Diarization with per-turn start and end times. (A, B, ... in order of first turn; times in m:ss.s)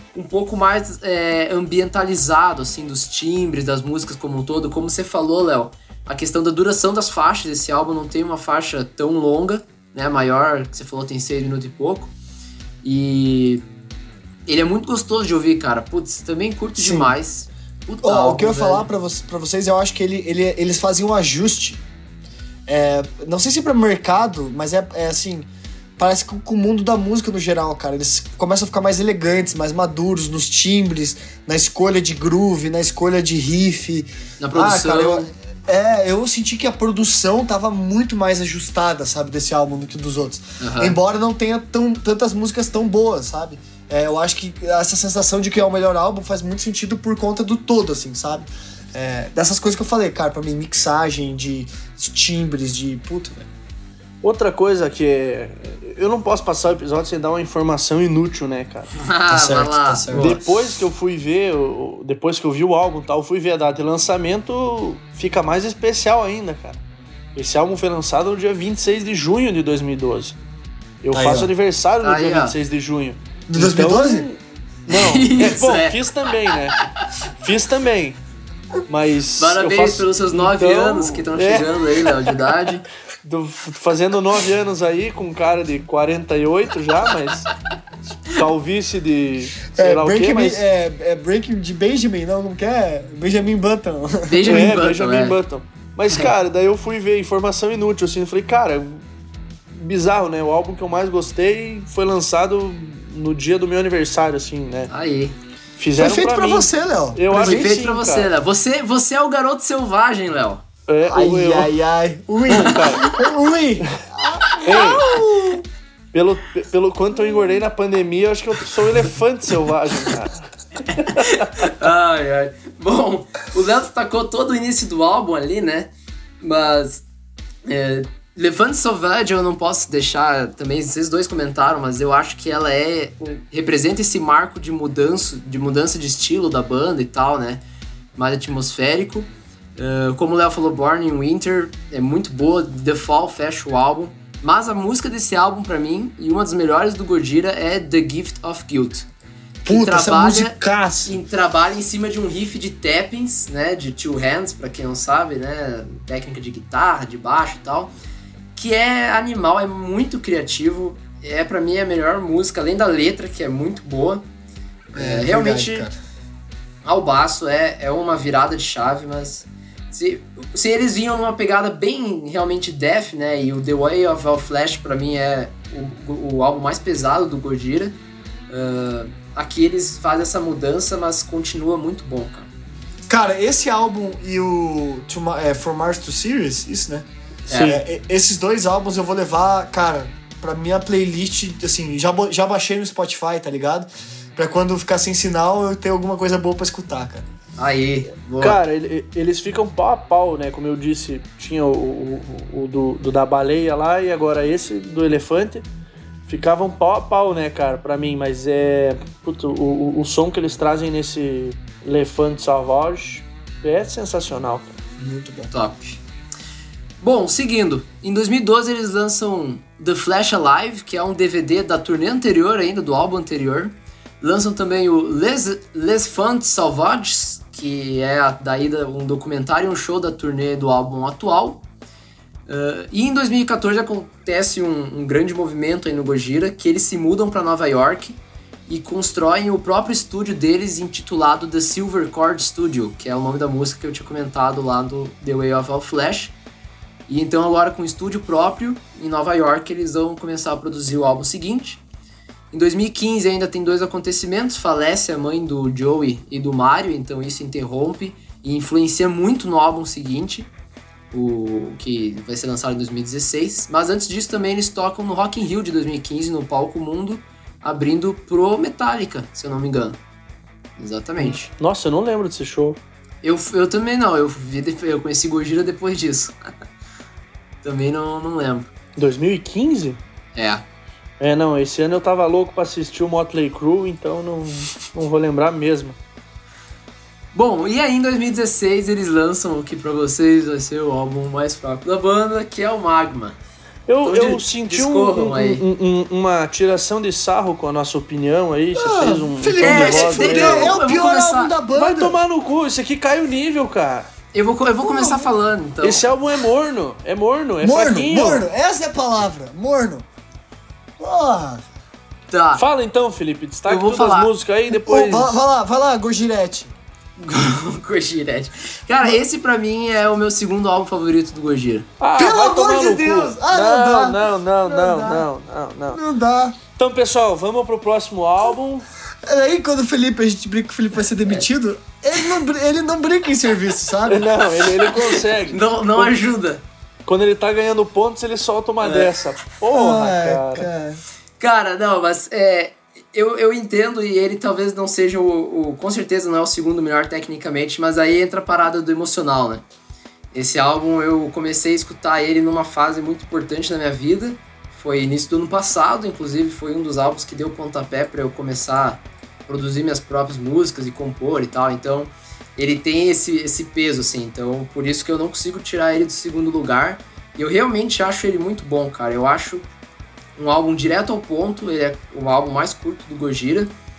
0:00.1-0:12.1 A
0:12.8-0:13.6 A
0:14.4-0:18.9 A
0:16.8-0:17.1 B
0:18.0-0:21.8 B
0:22.7-0:25.5 B
0:26.0-0:53.5 B
0:34.4-0:35.2 A
0:40.6-0:41.0 A
0:54.2-0:58.9 C
0:59.0-1:00.4 A
0:59.3-1:00.4 B
1:00.1-1:06.8 C
1:07.4-1:10.4 C
1:11.0-1:16.8 C
1:11.1-1:11.5 B
1:12.0-1:12.5 A
1:13.5-1:14.3 B
1:14.9-1:16.0 A
1:17.4-1:18.2 C
1:18.9-1:22.3 C
1:19.4-1:22.8 A
1:23.2-1:27.5 C
1:28.3-1:30.6 C
1:29.7-1:34.8 B
1:34.3-1:35.4 A
1:34.5-1:39.0 C
1:39.7-1:44.9 C
1:44.9-1:45.4 A
1:45.8-1:48.3 C
1:46.0-1:47.7 B
1:47.3-1:50.6 A
1:50.9-1:51.7 C
1:51.1-1:55.6 B
1:52.5-1:53.1 C
1:54.6-1:55.2 C
1:56.1-2:01.7 C
2:01.0-2:05.9 A
2:06.4-2:07.0 A
2:07.6-2:17.6 A
2:18.2-2:29.1 A
2:29.6-2:31.1 B
2:29.6-2:37.9 A
2:38.6-2:44.2 A
2:44.9-2:45.9 A
2:44.9-2:46.0 B
2:46.8-2:57.9 A
2:58.5-3:02.5 A
3:03.1-3:07.1 B
3:07.5-3:07.8 A
3:07.5-3:07.8 C
3:07.6-3:17.2 B
3:17.6-3:18.6 A
3:18.4-3:25.6 C
3:26.3-3:34.7 C
3:35.0-3:36.0 A
3:35.2-3:35.5 B
3:37.0-3:51.6 A
3:52.5-4:06.3 A
4:07.1-4:11.8 A
4:12.5-4:20.5 A
4:21.1-4:30.0 A
4:30.8-4:31.5 A
4:31.2-4:32.8 C
4:33.2-4:36.4 A
4:37.6-4:38.7 A
4:39.0-4:40.0 C
4:40.3-4:40.6 A
4:41.2-4:46.0 C
4:47.3-4:53.4 A
4:53.9-5:00.8 C
4:54.0-4:55.6 A
4:58.7-5:02.2 B
4:59.6-5:01.5 A
5:01.7-5:04.1 C
5:04.3-5:06.1 A
5:04.8-5:05.2 B
5:05.8-5:08.4 C
5:07.6-5:10.1 B
5:11.0-5:11.6 B
5:12.3-5:12.6 A
5:12.6-5:15.4 C
5:13.7-5:14.3 A
5:14.7-5:16.7 B
5:17.2-5:21.9 A
5:22.0-5:26.0 C
5:22.2-5:25.3 B
5:25.9-5:26.6 B
5:26.8-5:28.9 C
5:29.2-5:34.3 B
5:34.1-5:36.1 C
5:34.8-5:36.6 A
5:37.0-5:40.7 C
5:38.8-5:39.2 A
5:39.7-5:41.0 B
5:41.4-5:49.6 A
5:50.3-6:09.6 A
6:10.4-6:13.7 A